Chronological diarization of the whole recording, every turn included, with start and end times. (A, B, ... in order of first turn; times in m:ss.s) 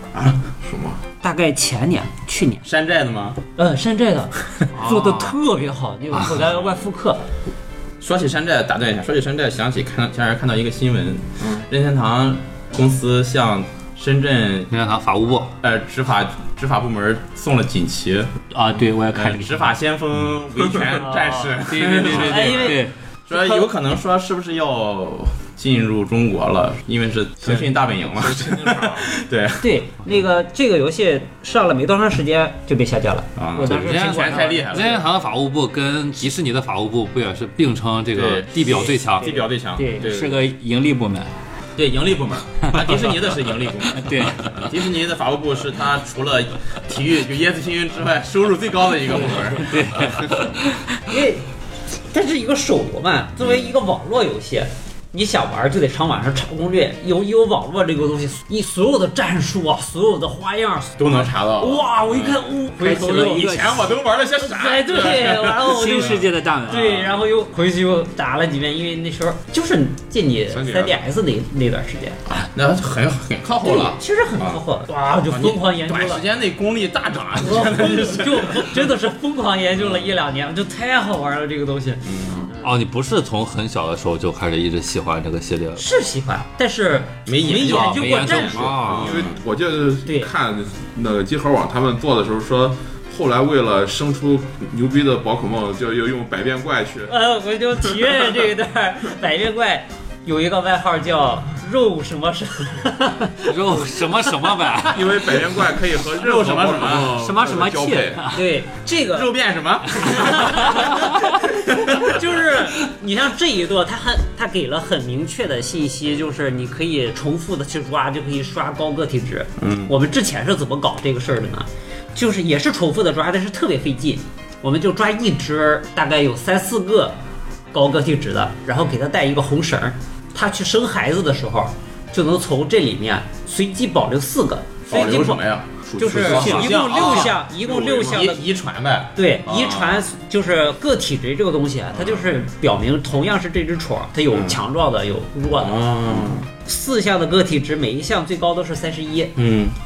0:00.6-0:01.0 A
0:01.2-0:02.6 B
0:02.6-0:03.4 C
0:03.6-0:07.2 B
0:04.7-0:05.4 D
0:08.0-0:14.7 C
0:14.7-0:15.6 D
0:15.6-0:18.3 C
0:18.5-0:19.7 E
0:19.1-0:29.7 C
0:21.0-0:22.8 B
0:21.7-0:23.6 E
0:28.0-0:29.1 A
0:29.6-0:34.6 B
0:33.4-0:35.0 C
0:33.6-0:39.3 D
0:38.1-0:40.5 C
0:39.2-0:40.1 B
0:39.9-0:41.3 E
0:41.8-0:50.1 C
0:43.9-0:44.5 E
0:49.6-0:50.8 E
0:51.0-0:51.4 B
0:52.1-1:03.5 B
1:01.0-1:02.4 C
1:02.8-1:04.0 E
1:03.2-1:07.0 C
1:04.4-1:12.2 B
1:05.5-1:07.0 E
1:10.5-1:11.0 A
1:12.3-1:14.6 C
1:13.6-1:16.2 B
1:15.3-1:18.8 C
1:17.4-1:22.7 B
1:19.8-1:20.2 C
1:22.0-1:22.5 C
1:22.6-1:25.8 D
1:25.8-1:28.7 B
1:27.2-1:29.4 C
1:27.6-1:29.2 D
1:28.9-1:37.1 A
1:37.1-1:43.5 B
1:37.8-1:38.1 A
1:43.4-1:45.5 D
1:44.9-1:48.2 A
1:46.1-1:48.3 C
1:47.1-1:48.4 E
1:47.7-1:49.3 B
1:49.1-1:52.3 C
1:50.0-1:51.1 B
1:51.9-2:07.1 B
1:59.6-1:59.9 C
2:07.7-2:15.4 B
2:14.9-2:20.0 C
2:15.8-2:16.9 A
2:16.0-2:18.4 B
2:19.1-2:25.8 B
2:22.0-2:22.2 C
2:24.3-2:24.6 C
2:25.6-2:26.5 C
2:26.6-2:29.3 B
2:29.4-2:29.8 C